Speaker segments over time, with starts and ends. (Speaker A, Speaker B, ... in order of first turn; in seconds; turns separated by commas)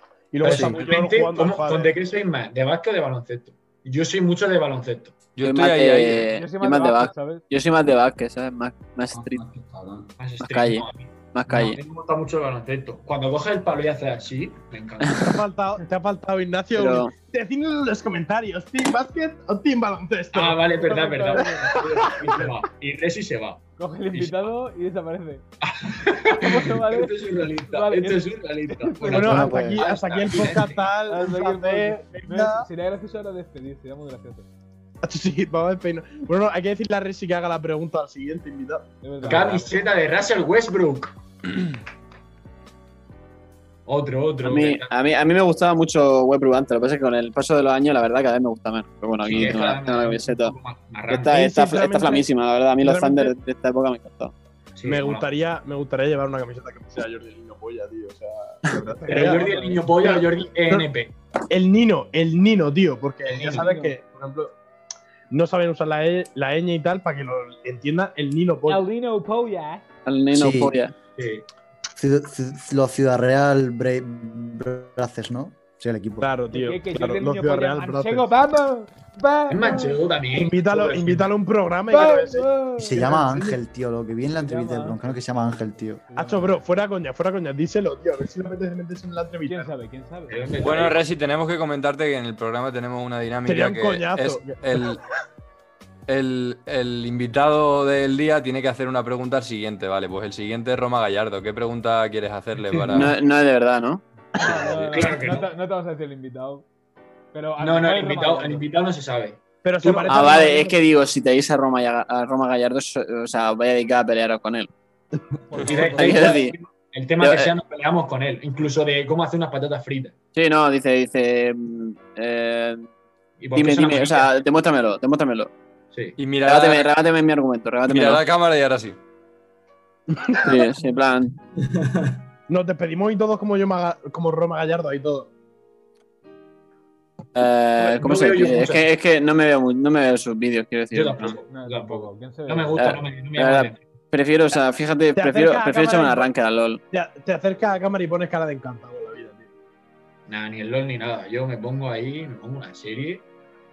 Speaker A: 0.3-1.9, Speaker B: 0.4-5.2, Speaker C: 5.4-6.3, Speaker D: 5.4-9.4, Speaker E: 6.3-7.4, Speaker F: 9.1-10.1, Speaker B: 10.2-15.3, Speaker D: 10.4-11.8, Speaker D: 15.0-15.4, Speaker A: 15.2-20.8, Speaker D: 16.8-17.1, Speaker B: 20.3-24.5, Speaker E: 20.8-21.8, Speaker A: 21.4-22.4, Speaker E: 23.8-25.4, Speaker B: 25.6-30.9, Speaker E: 26.3-29.7, Speaker A: 29.1-32.7, Speaker G: 29.2-29.9, Speaker E: 31.1-34.5, Speaker A: 35.0-38.9, Speaker E: 39.0-39.7, Speaker B: 39.2-41.1, Speaker B: 43.9-44.9, Speaker D: 44.4-50.5, Speaker B: 49.3-51.4, Speaker D: 51.1-54.3, Speaker A: 51.3-52.3, Speaker A: 52.8-53.3, Speaker B: 54.8-55.3, Speaker A: 54.8-59.5, Speaker E: 59.0-59.9, Speaker B: 59.1-61.1, Speaker A: 60.0-60.9, Speaker A: 61.5-64.5, Speaker B: 63.3-63.7, Speaker E: 63.5-64.0, Speaker A: 65.3-68.9, Speaker E: 68.7-69.8, Speaker D: 70.1-70.9, Speaker G: 70.3-70.8, Speaker B: 71.2-71.5, Speaker G: 72.0-76.4, Speaker A: 76.2-78.3, Speaker E: 76.5-80.0, Speaker B: 79.5-81.3, Speaker A: 80.3-83.5, Speaker E: 81.9-83.3, Speaker G: 82.8-86.1, Speaker E: 84.4-86.6, Speaker A: 86.1-89.7, Speaker E: 89.5-90.8, Speaker B: 90.3-91.0, Speaker C: 90.6-95.0, Speaker A: 93.5-94.9, Speaker C: 96.1-103.2, Speaker D: 102.9-104.0, Speaker E: 104.3-106.7, Speaker B: 104.9-105.5, Speaker E: 107.3-108.7, Speaker B: 107.6-110.2, Speaker A: 109.6-110.8, Speaker D: 110.1-114.7, Speaker E: 115.5-116.4, Speaker F: 115.5-116.0, Speaker B: 115.6-120.2, Speaker D: 115.9-116.5, Speaker D: 117.2-117.5, Speaker D: 120.3-122.9, Speaker B: 123.4-124.4, Speaker D: 123.5-125.5, Speaker B: 125.9-126.2, Speaker C: 126.2-126.9, Speaker D: 126.4-128.2, Speaker C: 127.9-129.0, Speaker A: 130.2-130.6, Speaker D: 130.4-131.4, Speaker F: 131.6-132.3, Speaker A: 132.5-135.3, Speaker D: 137.3-141.4, Speaker B: 137.8-138.9, Speaker B: 140.9-143.8, Speaker E: 141.5-142.8, Speaker D: 142.8-146.8, Speaker A: 145.2-146.3, Speaker A: 146.9-149.5, Speaker B: 150.3-153.2